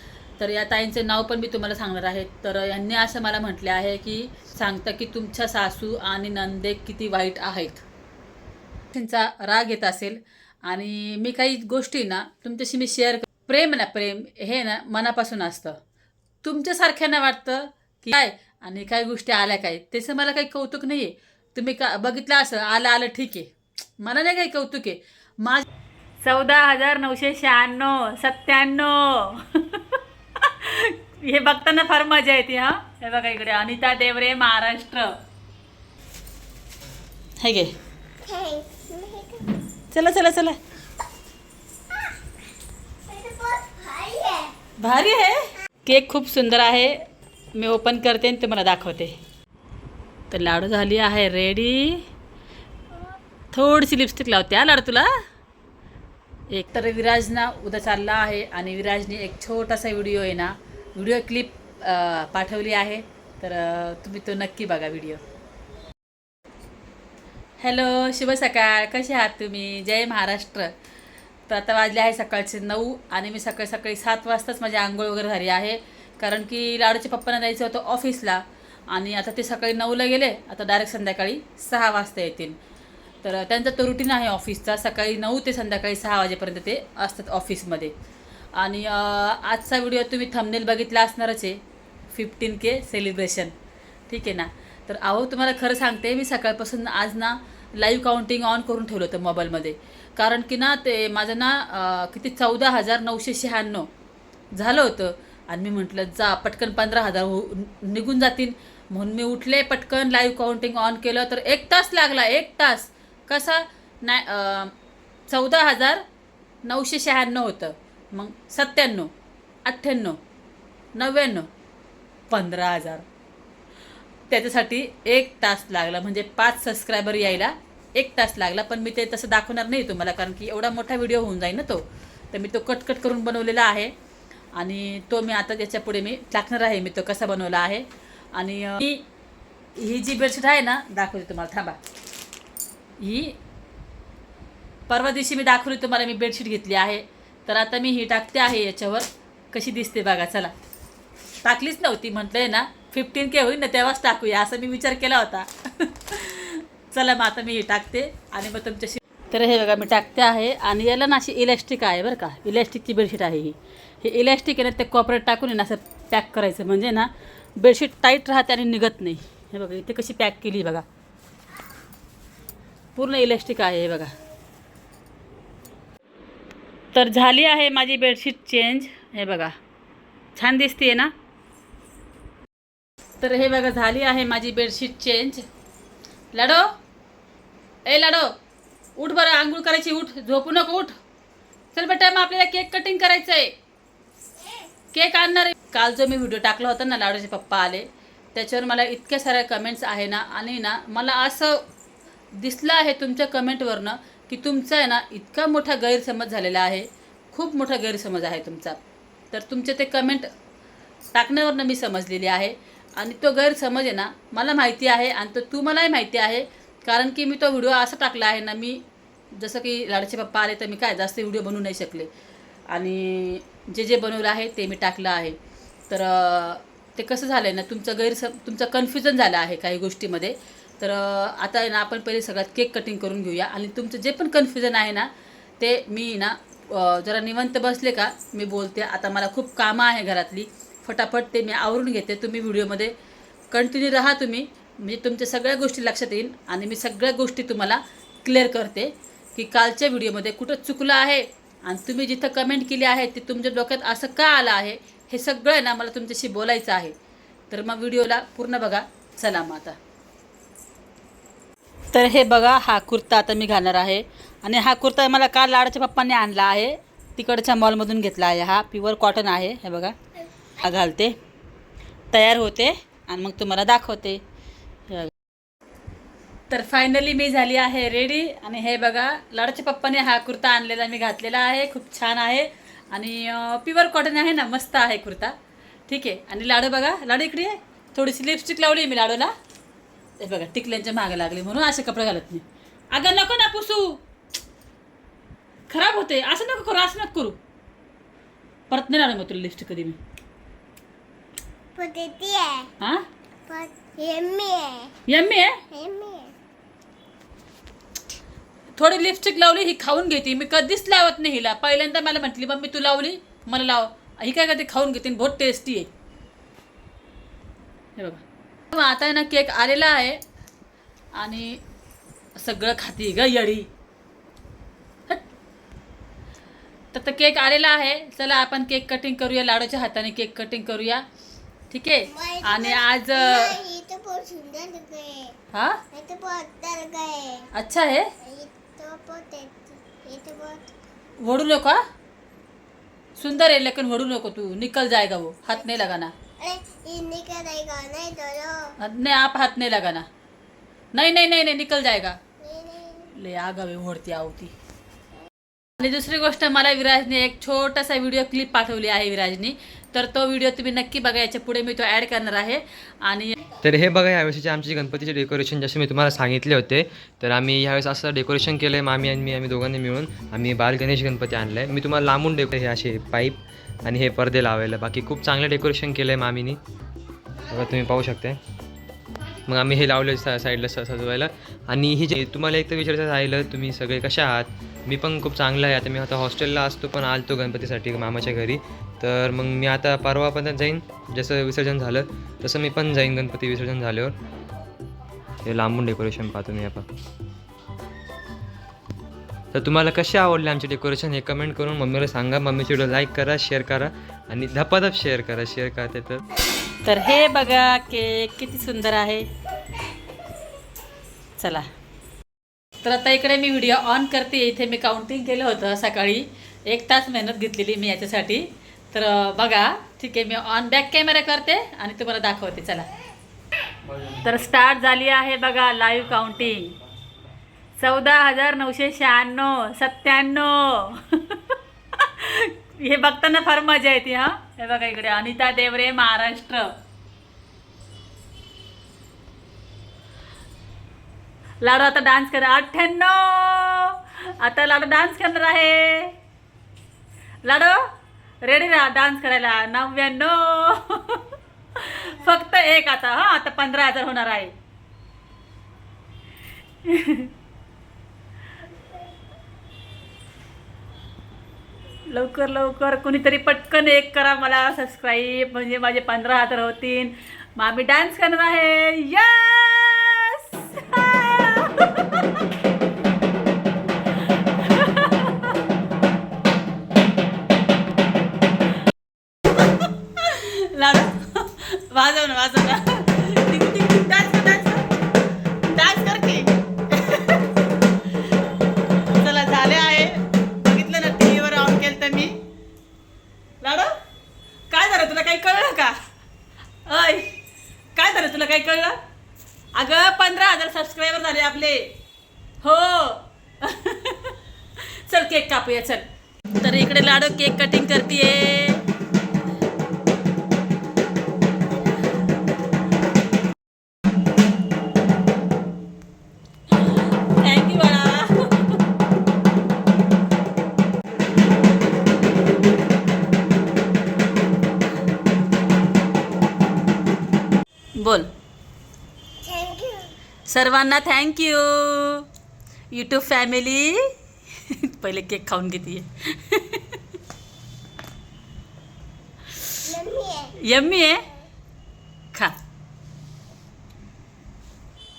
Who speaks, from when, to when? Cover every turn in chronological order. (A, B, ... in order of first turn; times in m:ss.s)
0:00.4-0:07.9 A
0:08.9-0:15.8 A
0:16.4-0:25.7 A
0:26.2-0:35.2 A
0:37.4-0:37.7 A
0:38.2-0:39.6 B
0:39.9-0:40.6 A
0:43.0-0:44.5 B
0:44.8-0:47.0 A
0:47.6-0:49.2 A
0:50.3-0:52.0 A
0:53.5-0:55.1 A
0:56.5-1:05.2 A
1:07.6-1:10.7 A
1:11.5-1:22.6 A
1:23.2-1:27.9 A
1:28.6-1:31.6 A
1:32.1-1:33.5 A
1:34.1-1:43.9 A
1:44.6-1:54.8 A
1:55.3-1:56.0 A
1:56.6-1:59.1 A
1:59.7-2:00.2 A
2:00.9-2:01.5 A
2:02.3-2:03.1 A
2:04.3-2:13.9 A
2:14.5-2:19.0 A
2:19.8-2:21.8 A
2:23.0-2:23.4 A
2:24.9-2:30.5 A
2:31.4-2:50.8 A
2:53.0-2:54.1 A
2:56.9-2:59.6 A
3:00.4-3:01.1 A
3:03.2-3:05.4 A
3:06.3-3:06.7 A
3:07.8-3:08.3 A
3:09.0-3:11.0 A
3:11.7-3:13.5 A
3:14.9-3:21.6 A
3:22.4-3:28.8 A
3:29.3-3:30.3 A
3:31.1-3:42.1 A
3:42.7-3:45.4 A
3:45.9-4:02.9 A
4:03.5-4:16.9 A
4:17.5-4:19.8 A
4:21.9-4:30.0 A
4:30.6-4:31.2 A
4:32.1-4:34.2 A
4:34.9-4:35.1 A
4:36.5-4:45.4 A
4:45.9-4:49.3 A
4:50.2-4:54.0 A
4:55.7-4:57.4 A
4:58.7-5:00.0 A
5:01.8-5:02.7 B
5:03.5-5:04.9 B
5:05.1-5:05.6 A
5:05.7-5:06.3 B
5:08.8-5:15.9 A
5:18.0-5:20.2 A
5:21.2-5:21.6 A
5:22.4-5:23.7 A
5:26.9-5:31.0 A
5:31.7-5:33.6 A
5:32.1-5:35.4 B
5:35.5-5:35.8 A
5:35.9-5:37.5 B
5:37.5-5:38.1 A
5:38.2-5:40.7 B
5:41.2-5:41.8 A
5:43.2-5:46.1 A
5:46.4-5:48.8 B
5:48.8-5:50.1 A
5:50.9-5:52.2 A
5:52.4-5:53.1 B
5:53.1-5:54.5 A
5:55.8-6:03.4 A
6:03.6-6:16.6 C
6:17.5-6:18.4 C
6:19.4-6:34.2 C
6:35.4-6:36.9 C
6:39.5-6:46.2 C
6:46.8-6:49.3 A
6:51.4-6:51.7 A
6:52.8-7:02.9 A
7:04.0-7:06.8 A
7:07.8-7:16.7 A
7:21.6-7:26.2 A
7:27.4-7:27.9 A
7:28.4-7:31.2 A
7:31.8-7:34.6 A
7:36.8-7:37.3 A
7:42.1-7:52.4 A
7:54.1-7:55.6 A
8:00.2-8:04.9 A
8:05.7-8:07.6 A
8:08.8-8:12.4 A
8:13.6-8:13.9 A
8:14.7-8:16.0 A
8:16.9-8:17.4 A
8:17.9-8:19.0 A
8:19.8-8:21.9 A
8:22.6-8:28.8 A
8:36.7-8:38.8 A
8:48.0-8:48.3 A
8:49.4-8:50.1 B
8:50.5-8:52.2 A
8:52.9-8:57.0 A
8:59.8-9:00.6 B
9:00.6-9:01.2 A